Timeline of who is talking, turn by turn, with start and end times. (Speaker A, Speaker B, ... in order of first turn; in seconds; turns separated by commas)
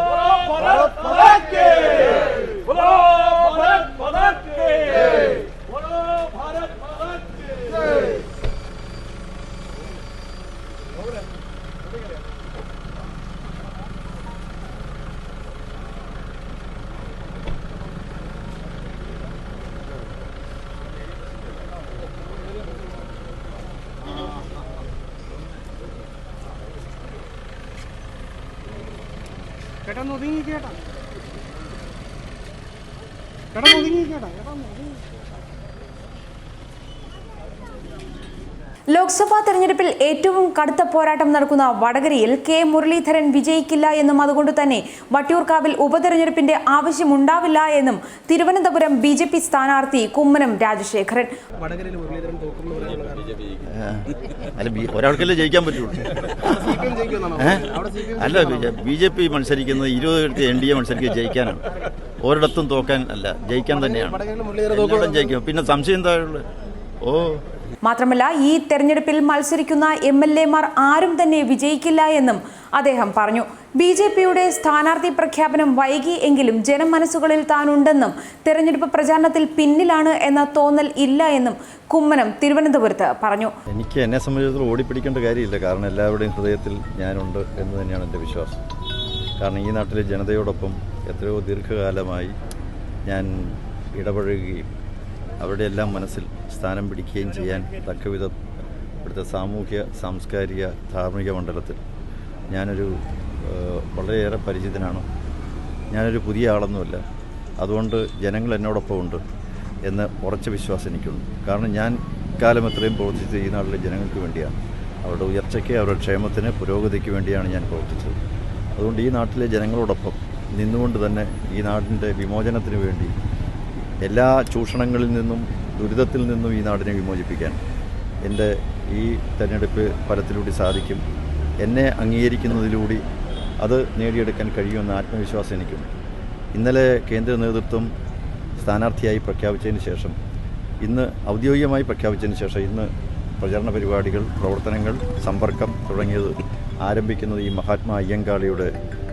Speaker A: 0.6-2.0, Speaker A: 29.9-30.8, Speaker A: 33.5-35.0, Speaker B: 38.9-51.3, Speaker A: 51.6-53.5, Speaker C: 53.6-56.8, Speaker A: 56.6-58.6, Speaker C: 57.3-66.5, Speaker A: 63.9-65.2, Speaker C: 67.0-67.4, Speaker B: 67.8-83.5, Speaker C: 83.7-88.6, Speaker C: 89.4-92.3, Speaker C: 93.1-94.7, Speaker C: 95.4-98.3, Speaker C: 99.0-101.8, Speaker C: 102.5-105.0, Speaker C: 105.9-107.0, Speaker C: 107.6-109.2, Speaker C: 109.8-118.2, Speaker C: 118.7-123.1, Speaker C: 124.0-127.6, Speaker C: 128.2-131.0, Speaker C: 131.6-133.0, Speaker C: 133.6-135.9, Speaker C: 136.5-137.9, Speaker C: 138.6-140.2, Speaker C: 140.8-148.7